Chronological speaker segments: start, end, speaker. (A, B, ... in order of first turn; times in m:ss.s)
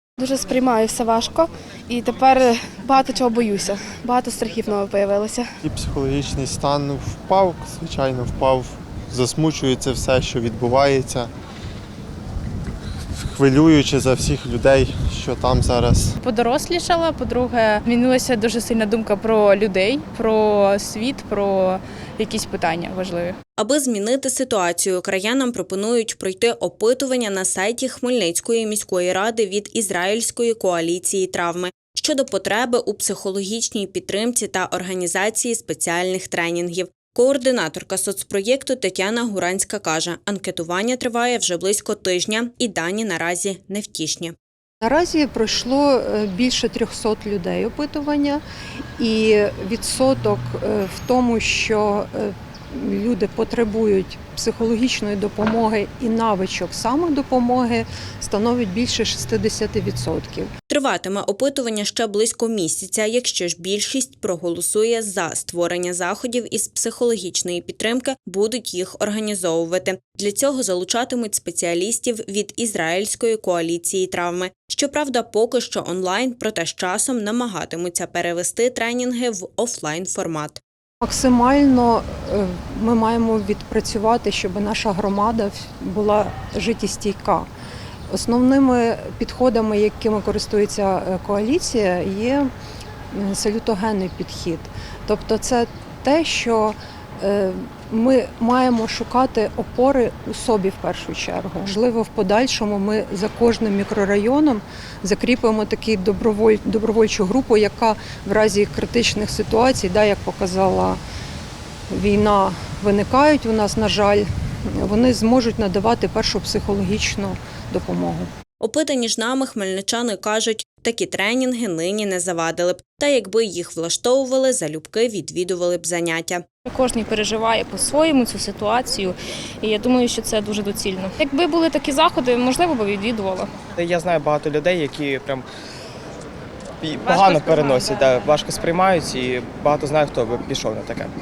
0:00.2-0:05.5 A
0:05.6-0:11.3 B
0:13.2-0:16.2 B
0:16.2-0:23.4 C
0:23.6-0:44.3 D
0:44.8-0:48.4 E
0:49.0-1:00.5 E
1:00.7-1:20.6 D
1:21.0-1:27.5 E
1:28.1-1:32.5 E
1:33.1-1:51.0 E
1:51.9-1:58.3 E
1:58.6-2:06.4 D
2:06.6-2:13.5 F
2:13.8-2:15.4 G
2:16.8-2:21.1 G